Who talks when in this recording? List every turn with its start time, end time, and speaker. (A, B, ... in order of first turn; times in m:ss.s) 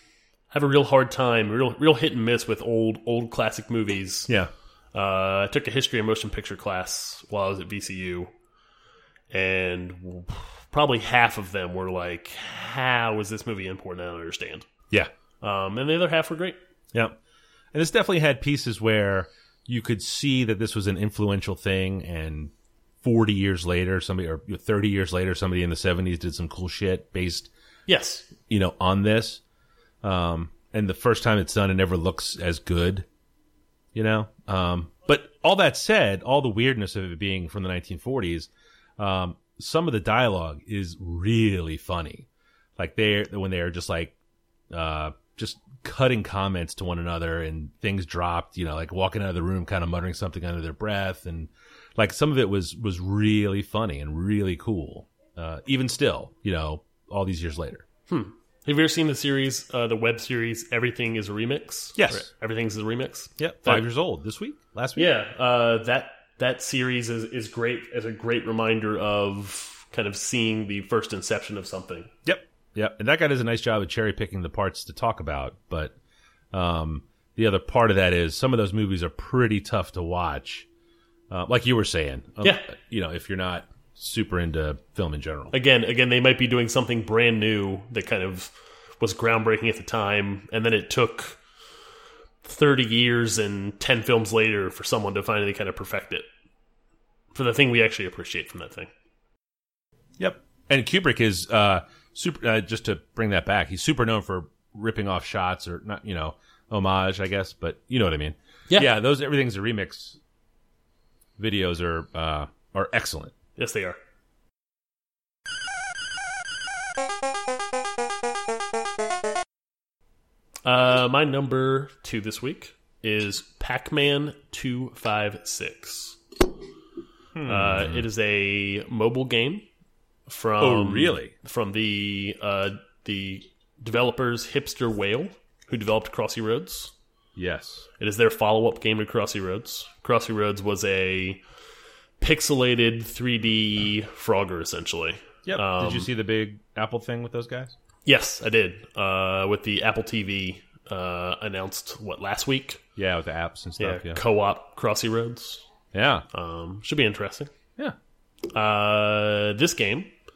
0:00.5-0:04.3 A
0:04.9-0:08.3 A
0:09.3-0:14.7 A
0:15.4-0:16.6 A
0:17.7-0:27.5 B
0:27.9-0:28.3 A
0:28.5-0:29.4 B
0:30.0-0:33.0 B
0:33.9-0:44.2 B
0:44.7-0:57.8 B
0:58.1-1:03.8 A
1:02.0-1:02.3 B
1:03.4-1:05.1 B
1:05.0-1:12.1 A
1:12.2-1:15.9 B
1:16.5-1:20.6 B
1:21.3-1:25.5 B
1:22.4-1:22.7 A
1:25.5-1:31.4 A
1:32.4-1:36.2 A
1:37.3-1:38.9 A
1:40.2-1:50.2 B
1:51.4-1:53.3 B
1:53.6-1:54.0 A
2:00.6-2:06.2 A
2:07.3-2:08.0 B
2:07.4-2:09.6 A
2:10.3-2:16.9 A
2:10.6-2:11.3 B
2:17.4-2:17.9 B
2:18.0-2:21.4 A
2:22.2-2:26.1 A
2:25.4-2:27.7 B
2:28.0-2:32.8 A
2:33.0-2:34.2 B
2:33.8-2:35.6 A
2:35.9-2:36.2 B
2:36.3-2:37.5 A
2:38.5-2:40.1 A